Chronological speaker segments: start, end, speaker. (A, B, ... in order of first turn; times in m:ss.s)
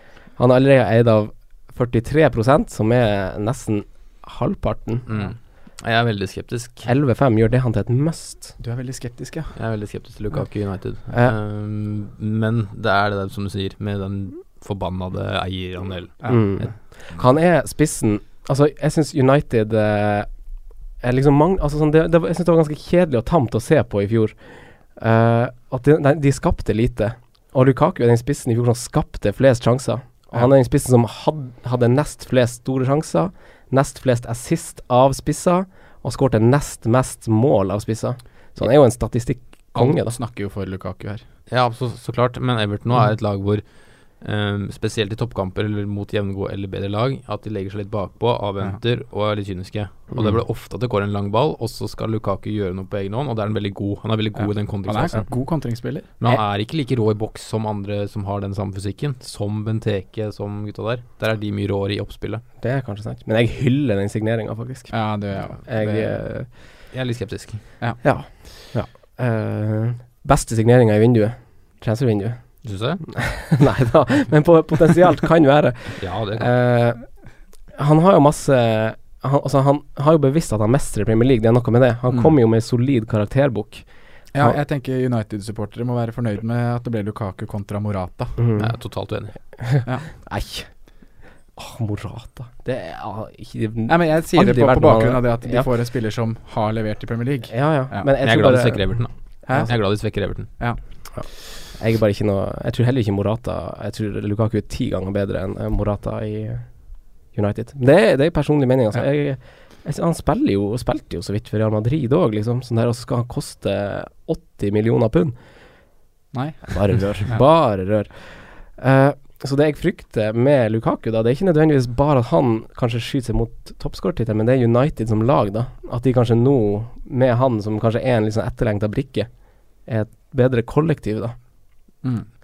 0:00.3-0:05.0 A
0:05.0-0:06.9 B
0:06.8-0:08.6 A
0:08.6-0:09.5 C
0:09.5-0:16.7 B
0:11.0-0:11.3 A
0:16.2-0:17.3 C
0:16.3-0:20.3 A
0:21.0-0:40.2 A
0:39.7-0:41.2 C
0:41.5-0:55.3 B
0:54.4-0:56.1 C
0:56.2-1:02.4 B
1:02.6-1:06.5 A
1:04.9-1:06.2 C
1:06.9-1:07.7 B
1:08.0-1:17.1 A
1:12.6-1:13.1 B
1:16.0-1:16.6 B
1:17.7-1:24.6 A
1:24.3-1:28.4 C
1:28.4-1:29.0 A
1:28.6-1:29.6 B
1:29.6-1:31.0 A
1:29.9-1:30.1 C
1:31.6-1:35.7 A
1:33.9-1:38.1 C
1:37.5-1:39.7 A
1:38.2-1:40.5 B
1:39.5-1:40.8 C
1:41.1-1:46.7 A
1:47.3-1:55.4 A
1:56.3-1:57.4 C
1:56.7-2:11.3 A
2:12.0-2:12.3 C